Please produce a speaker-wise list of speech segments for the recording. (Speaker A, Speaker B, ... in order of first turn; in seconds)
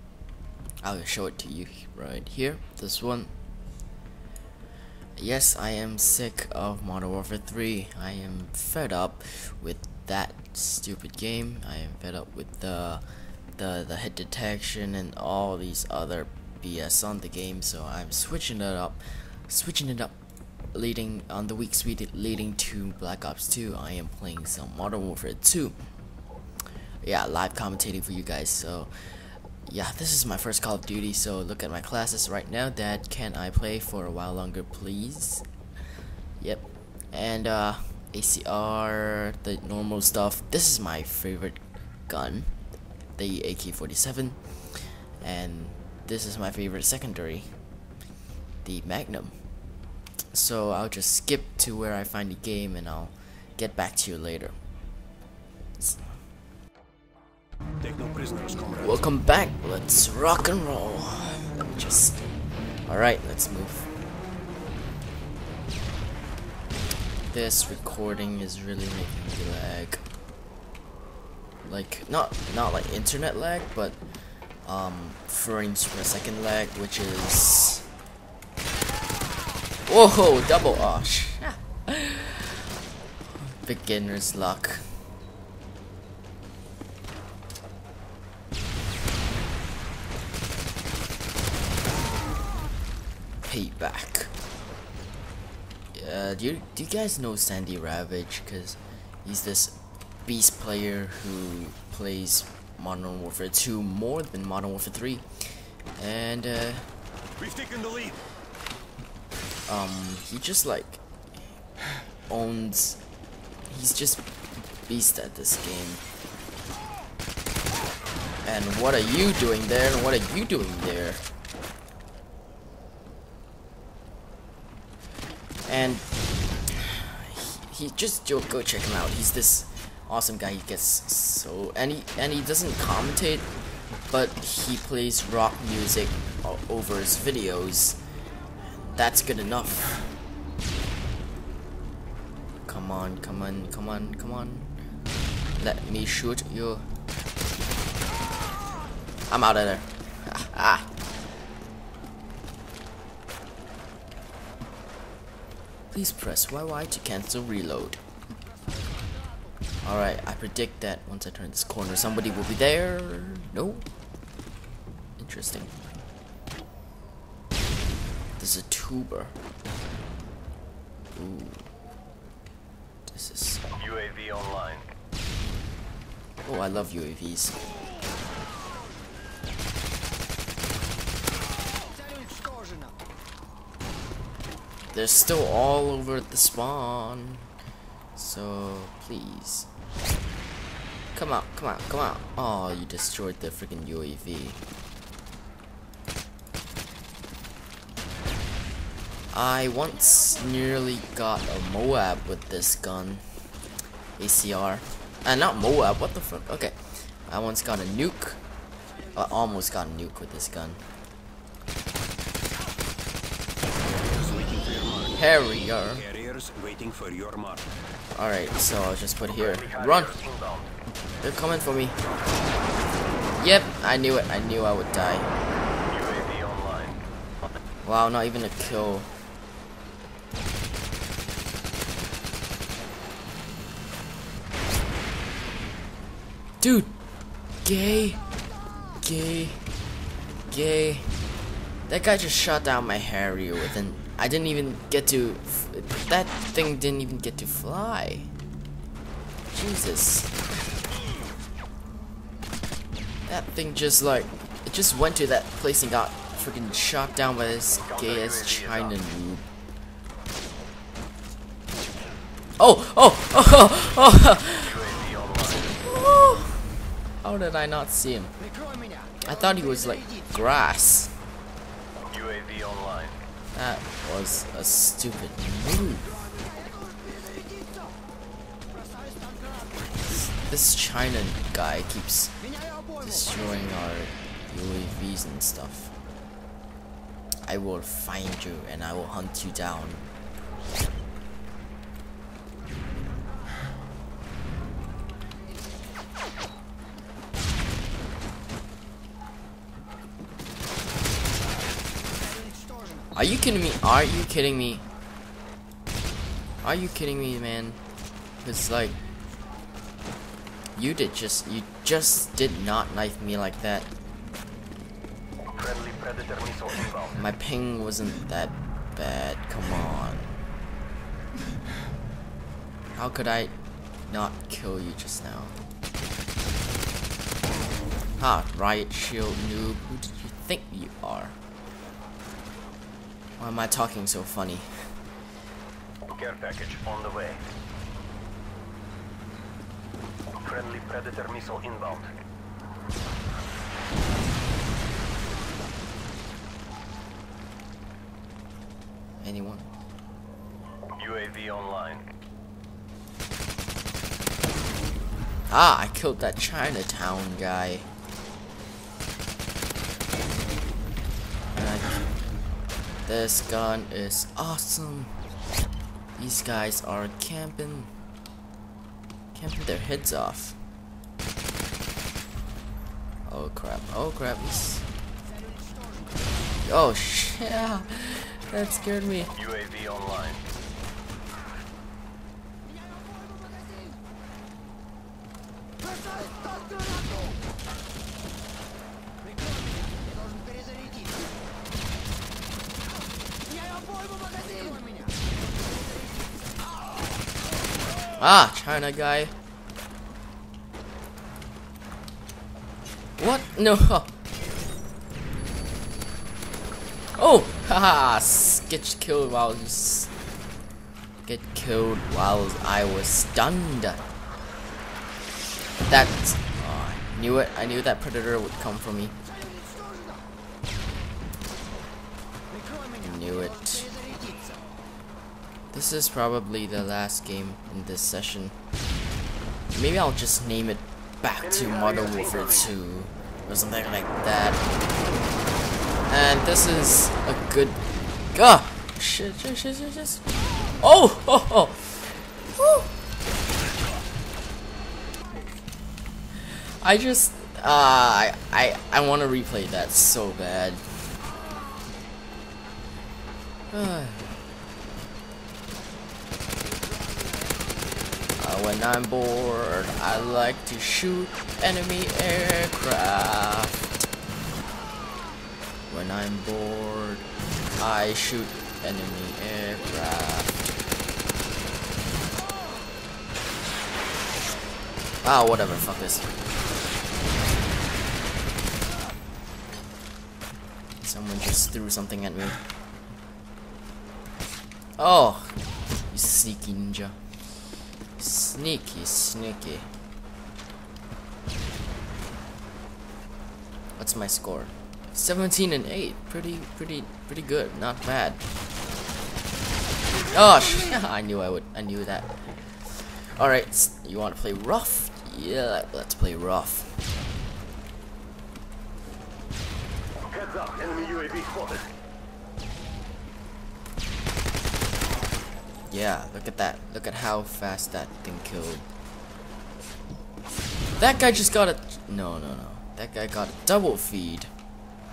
Speaker A: 0.8-3.3, 5.2-13.0, 13.6-20.1, 20.7-25.8, 27.0-35.4, 36.4-42.6, 43.1-47.6, 48.6-49.5, 50.3-54.5, 58.8-62.3, 62.8-63.9, 67.3-70.0, 71.6-74.0, 74.6-77.8, 79.8-82.6, 83.4-84.8, 93.4-94.3, 95.9-106.9, 109.7-111.0, 112.3-113.0, 113.7-114.3, 114.8-116.0, 118.4-121.3, 125.7-126.0, 126.7-133.5, 134.1-138.0, 138.8-140.1, 142.6-144.7, 145.6-146.8, 149.3-150.9, 155.9-158.0, 159.8-163.9, 165.2-165.8, 168.4-169.3, 171.1-171.7, 173.1-173.7, 176.4-177.6, 184.9-187.5, 188.1-189.7, 191.1-194.6, 199.3-203.4, 204.2-208.4, 209.1-210.8, 215.1-216.1, 218.1-220.1, 221.2-222.0, 223.3-225.3, 227.8-229.1, 236.6-237.0, 237.6-238.2, 239.0-239.7, 240.5-241.2, 241.9-248.3, 249.5-250.3, 253.3-259.4, 262.6-264.9, 265.8-268.3, 269.2-271.1, 273.5-276.2, 280.0-282.4, 282.9-285.9, 287.4-290.1, 303.1-304.8, 306.6-307.8, 308.4-309.0, 310.7-313.9, 317.1-320.3, 322.9-323.5, 324.1-325.6, 328.2-331.4, 333.4-335.0, 349.2-349.7, 355.5-357.9, 361.5-362.1, 363.1-365.2, 366.1-367.9, 369.3-370.6, 373.3-374.9, 376.6-379.4, 398.2-399.3, 403.2-404.1, 407.1-410.1, 411.2-414.0, 415.9-419.1, 423.0-424.0, 425.7-428.5, 429.7-434.7, 436.1-442.9, 446.4-450.8, 453.7-454.4, 458.4-463.9, 465.9-470.5, 475.2-476.3, 481.0-482.6, 485.0-487.2, 488.2-489.9, 494.0-498.4, 500.2-507.0, 515.9-518.9, 521.0-524.5
Speaker B: 57.8-58.9, 107.4-108.2, 173.8-174.8, 213.9-215.2, 216.0-217.7, 219.4-220.7, 225.9-227.0, 264.8-265.7, 272.1-273.1, 315.6-317.1, 336.1-337.4, 340.4-342.1, 351.0-352.0, 379.4-380.4, 431.8-432.4, 510.4-511.8